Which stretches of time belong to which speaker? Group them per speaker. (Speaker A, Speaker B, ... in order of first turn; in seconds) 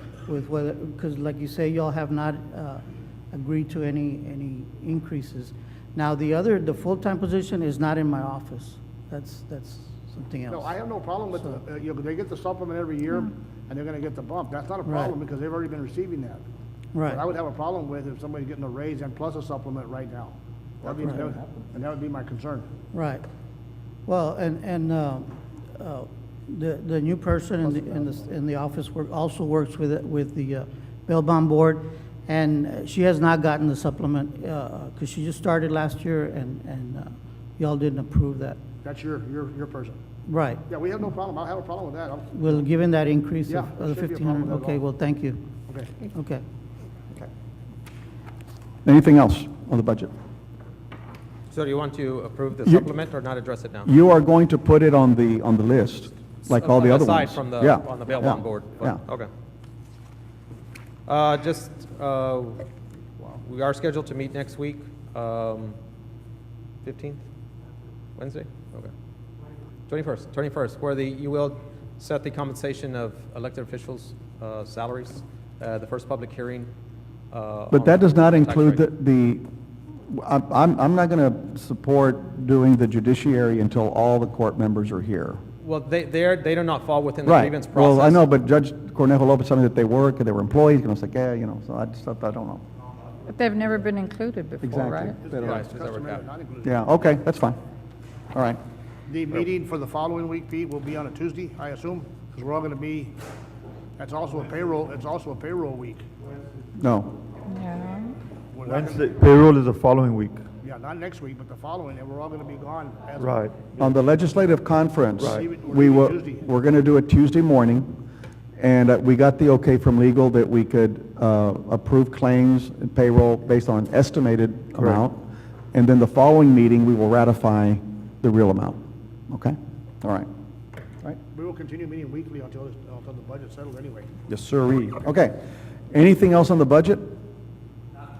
Speaker A: 0.2-10.8, 11.3-11.6, 14.8-15.2, 16.9-17.2, 22.9-23.2, 24.1-38.6, 40.3-40.6, 42.3-45.5, 46.1-46.4
Speaker B: 10.5-16.4, 17.0-22.7, 38.8-40.0, 40.7-42.6, 43.5-44.8, 45.7-46.0, 95.2-97.1, 99.1-103.2, 104.0-106.0, 108.5-109.1, 110.6-113.4, 115.2-116.4, 131.3-134.1
Speaker C: 48.8-50.1, 52.6-52.9, 53.8-59.0, 77.7-79.4, 80.1-85.4, 87.2-92.6, 94.6-95.6, 96.6-97.6, 98.3-98.6, 106.8-107.2, 113.8-117.9, 118.6-128.8, 129.3-130.3, 134.3-135.3, 135.9-137.1
Speaker D: 51.5-53.9, 56.5-59.3, 61.1-62.6, 63.4-65.8, 66.8-67.2, 68.2-68.9, 69.9-76.7, 77.3-78.8, 85.6-88.2, 95.5-96.2
Speaker E: 93.3-95.2, 107.5-108.1
Speaker F: 108.7-110.3, 113.2-113.6, 115.2-115.5